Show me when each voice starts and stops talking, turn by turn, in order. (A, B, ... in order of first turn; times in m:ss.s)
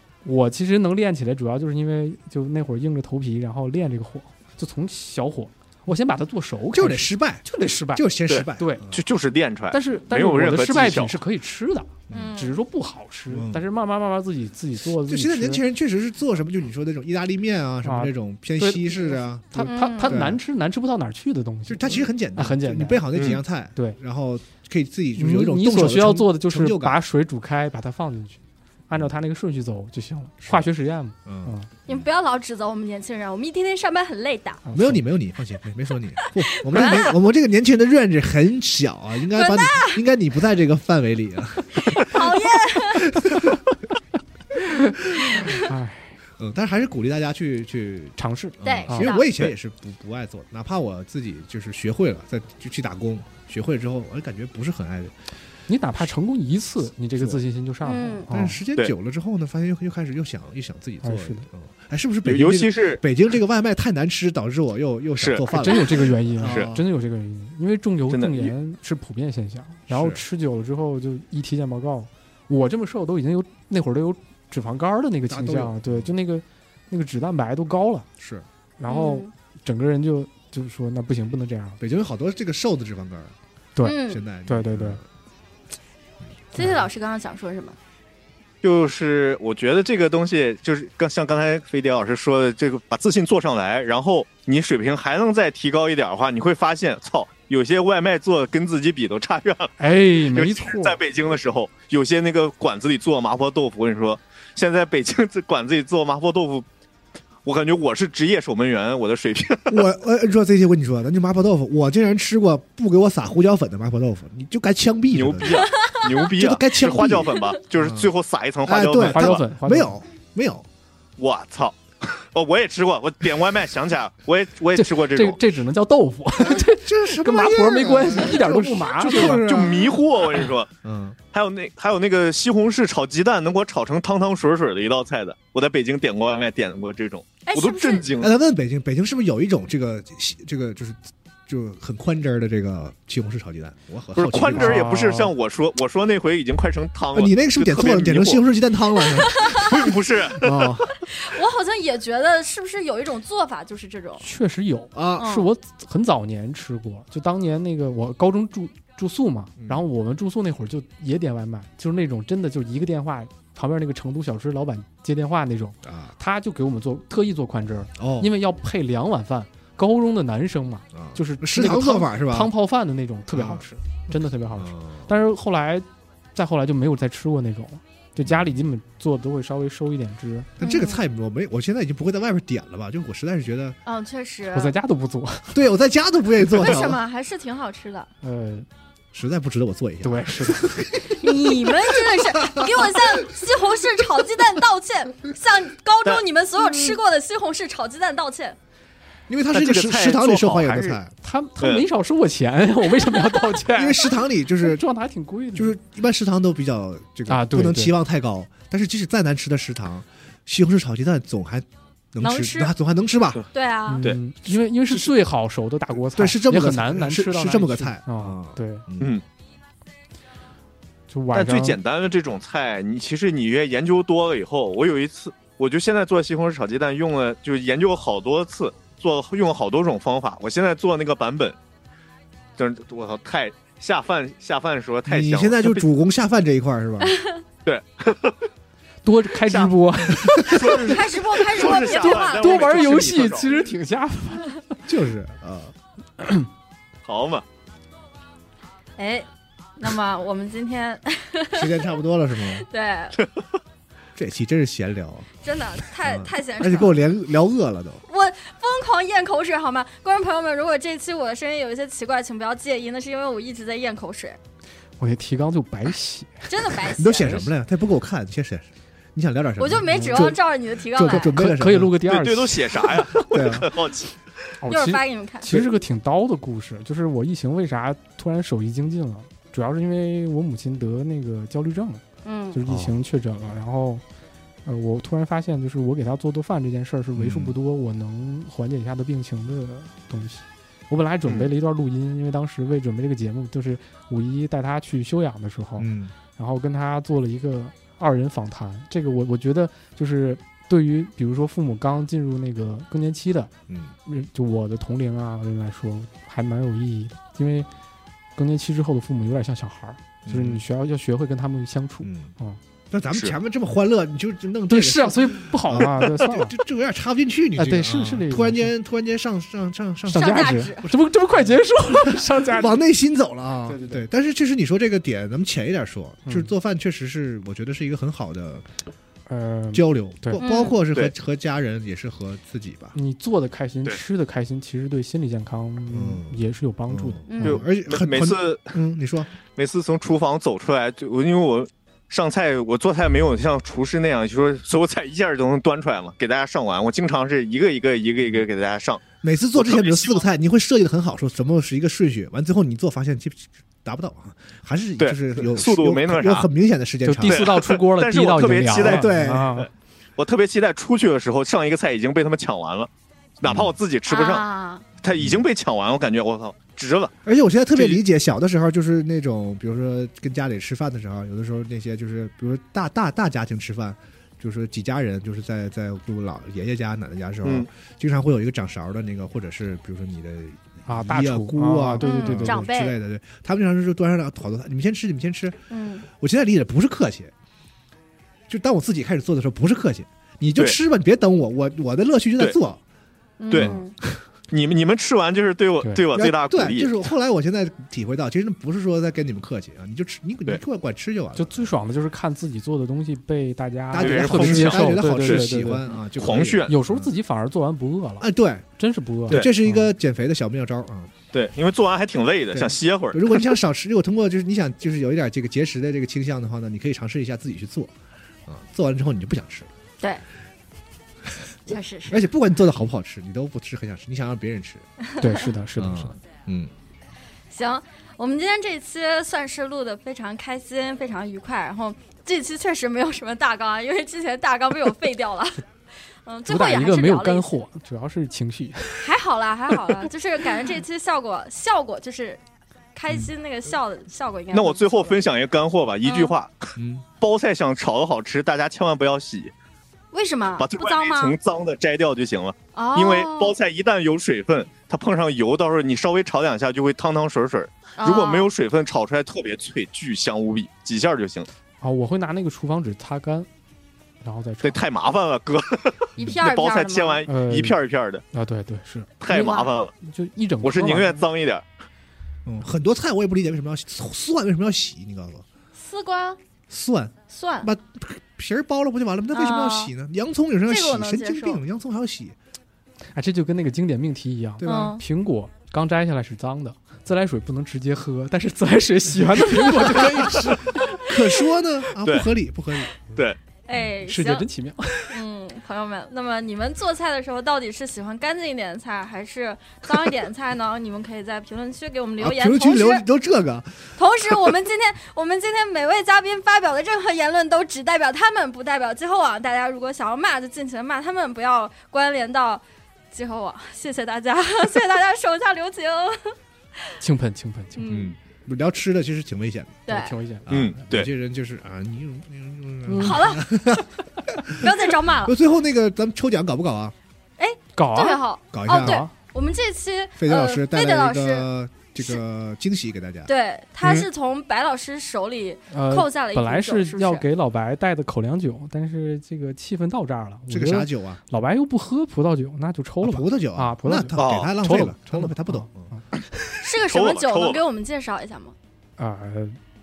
0:00.2-0:08.8 A
0:06.7-0:09.0 B
0:08.3-0:11.2 C
0:09.7-0:15.6 A
0:12.1-0:12.5 B
0:12.1-0:12.5 D
0:13.3-0:13.6 B
0:15.0-0:20.4 B
0:17.8-0:23.0 A
0:19.6-0:20.2 D
0:21.7-0:27.0 B
0:23.2-0:23.4 C
0:25.2-0:31.7 A
0:30.4-0:30.7 B
0:31.2-0:32.0 B
0:31.9-0:34.6 D
0:34.6-0:35.0 A
0:34.7-0:43.6 B
0:36.5-0:37.1 D
0:39.3-0:40.0 D
0:41.9-0:43.2 D
0:44.6-0:46.1 A
0:45.0-0:45.4 B
0:46.4-0:55.1 B
0:48.2-0:49.2 A
0:48.6-0:49.3 D
0:55.7-0:58.6 A
0:57.2-0:57.4 B
0:57.8-0:58.3 D
0:58.3-1:06.8 B
1:01.0-1:01.5 A
1:02.2-1:03.0 C
1:05.2-1:05.5 C
1:05.5-1:18.1 A
1:08.1-1:08.5 C
1:09.9-1:10.2 B
1:15.3-1:16.1 B
1:18.2-1:18.4 B
1:18.8-1:21.8 A
1:18.9-1:19.3 D
1:21.8-1:23.3 B
1:23.8-1:25.0 A
1:23.8-1:24.2 D
1:23.9-1:25.0 B
1:26.5-1:27.8 D
1:28.6-1:46.6 C
1:39.8-1:41.0 A
1:47.4-1:49.8 C
1:49.7-1:55.7 B
1:55.1-1:59.4 C
1:55.5-1:56.2 D
1:56.3-1:58.1 B
1:58.6-2:00.7 B
1:59.0-2:00.0 A
2:01.2-2:05.4 C
2:04.7-2:09.5 A
2:06.4-2:09.9 B
2:09.0-2:10.7 C
2:10.8-2:11.2 B
2:11.3-2:18.3 C
2:17.4-2:18.1 D
2:18.2-2:24.9 B
2:24.1-2:28.4 C
2:24.5-2:25.3 A
2:27.1-2:31.0 B
2:29.2-2:29.6 D
2:29.5-2:30.8 C
2:31.1-2:34.2 D
2:34.2-3:00.5 A
2:34.9-2:35.3 B
2:35.2-2:35.5 D
2:39.6-2:39.8 B
2:45.8-2:46.1 B
2:48.0-2:48.3 B
2:50.9-2:52.5 B
2:53.3-2:55.1 B
2:58.2-2:58.6 B
3:00.6-3:03.8 B
3:00.6-3:01.0 D
3:03.8-3:04.8 D
3:04.5-3:05.6 A
3:05.5-3:07.0 B
3:06.6-3:08.1 D
3:08.2-3:08.7 A
3:09.1-3:13.4 B
3:10.0-3:10.7 A
3:11.2-3:18.6 D
3:19.3-3:21.1 B
3:19.5-3:21.0 C
3:21.2-3:25.8 A
3:21.6-3:21.8 C
3:23.7-3:24.8 B
3:25.5-3:33.4 B
3:27.3-3:28.0 A
3:32.2-3:32.7 D
3:33.5-3:34.0 D
3:33.9-3:38.8 A
3:34.9-3:35.1 B
3:36.0-3:39.2 B
3:41.1-3:41.8 A
3:41.3-3:51.6 C
3:52.6-3:55.8 C
3:55.0-3:57.2 B
3:57.0-3:57.4 D
3:57.6-3:58.4 C
3:59.0-4:00.7 A
3:59.4-3:59.8 C
4:00.2-4:01.0 B
4:00.3-4:03.6 C
4:00.7-4:03.3 D
4:01.7-4:04.6 A
4:04.9-4:05.7 B
4:06.2-4:06.5 A
4:07.0-4:07.4 C
4:09.0-4:12.0 D
4:11.5-4:12.7 B
4:12.5-4:13.2 D
4:14.2-4:15.3 B
4:15.4-4:17.0 D
4:16.0-4:18.0 B
4:18.1-4:24.4 D
4:25.0-4:26.3 A
4:26.5-4:27.5 D
4:26.8-4:32.0 B
4:29.6-4:31.3 D
4:29.9-4:30.4 A
4:30.9-4:33.0 A
4:32.1-4:34.1 C
4:33.0-4:33.7 B
4:34.6-4:44.0 A
4:34.7-4:35.6 D
4:42.2-4:42.6 D
4:42.6-4:42.9 B
4:44.6-5:03.5 A
4:47.1-4:47.6 B
4:55.8-4:56.1 B
5:04.0-5:07.7 A
5:08.4-5:12.6 A
5:10.2-5:10.6 B
5:12.0-5:12.3 B
5:12.9-5:28.6 B
5:14.7-5:16.5 A
5:17.6-5:18.7 A
5:20.1-5:20.9 D
5:20.1-5:22.8 A
5:23.7-5:24.0 A
5:26.2-5:26.5 A
5:29.3-5:30.4 A
5:29.7-5:33.0 B
5:30.4-5:30.8 D
5:32.9-5:37.6 A
5:35.9-5:39.3 B
5:37.3-5:37.6 D
5:37.4-5:38.7 C
5:39.6-5:49.0 C
5:49.2-5:57.7 B
5:49.6-5:50.2 C
5:55.0-5:56.5 C
5:57.0-5:59.7 A
5:57.2-5:59.2 C
5:58.6-5:59.6 B
6:00.2-6:04.4 C
6:03.4-6:03.7 B
6:04.1-6:04.8 D
6:05.0-6:07.1 C
6:05.2-6:05.4 B
6:07.2-6:27.3 B
6:20.8-6:22.6 A
6:22.0-6:23.0 D
6:25.7-6:26.0 D
6:28.5-6:32.8 B
6:33.4-6:33.9 D
6:33.5-6:33.8 C
6:33.5-6:34.2 B
6:34.5-6:37.0 C
6:36.1-6:41.8 B
6:41.4-6:45.9 A
6:43.9-6:47.1 B
6:44.0-6:45.6 C
6:46.2-6:46.7 C
6:46.7-6:49.9 A
6:48.2-6:48.6 B
6:49.3-6:51.1 B
6:51.3-6:53.5 C
6:52.5-6:57.9 B
6:58.4-6:59.7 B
7:01.7-7:02.3 D
7:02.1-7:04.8 B
7:05.2-7:06.2 A
7:05.8-7:06.7 B
7:07.5-7:15.6 D
7:16.2-7:17.5 D
7:16.5-7:19.1 A
7:19.0-7:22.4 D
7:22.9-7:25.2 D
7:24.5-7:29.5 C
7:26.0-7:26.3 D
7:26.8-7:27.0 B
7:30.1-7:31.4 D
7:30.6-7:41.5 C
7:32.7-7:33.6 D
7:38.0-7:38.5 D
7:41.8-7:43.5 A
7:44.2-7:44.8 A
7:44.6-7:48.2 C
7:46.2-7:47.2 D
7:47.3-7:47.8 A
7:48.3-7:49.1 A
7:49.2-7:49.9 C
7:49.3-7:49.7 D
7:50.0-7:51.2 A
7:50.6-7:51.6 C
7:52.4-7:55.4 B
7:55.7-7:56.4 D
7:56.7-8:02.4 B
7:57.3-7:57.7 D
7:59.3-7:59.9 D
8:00.6-8:01.6 D
8:03.1-8:10.9 A
8:04.6-8:05.0 B
8:04.6-8:05.0 D
8:10.9-8:13.2 B
8:12.0-8:12.3 C
8:13.6-8:14.5 D
8:14.0-8:15.2 A
8:15.1-8:23.0 D
8:22.2-8:24.5 B
8:24.0-8:36.3 D
8:37.0-8:38.0 A
8:37.8-8:38.1 D
8:37.8-8:46.9 B
8:39.9-8:40.2 D
8:39.9-8:40.4 A
8:40.5-8:41.1 C
8:42.8-8:43.2 A
8:43.0-8:43.8 D
8:44.5-8:45.3 D
8:47.4-8:51.5 D
8:47.8-8:49.1 A
8:48.5-8:49.0 B
8:50.2-8:53.3 B
8:53.2-8:57.2 D
8:55.7-9:06.0 A
9:00.5-9:01.2 B
9:03.0-9:05.9 B
9:04.2-9:04.5 C
9:06.6-9:08.5 D
9:06.7-9:07.6 C
9:09.0-9:09.6 A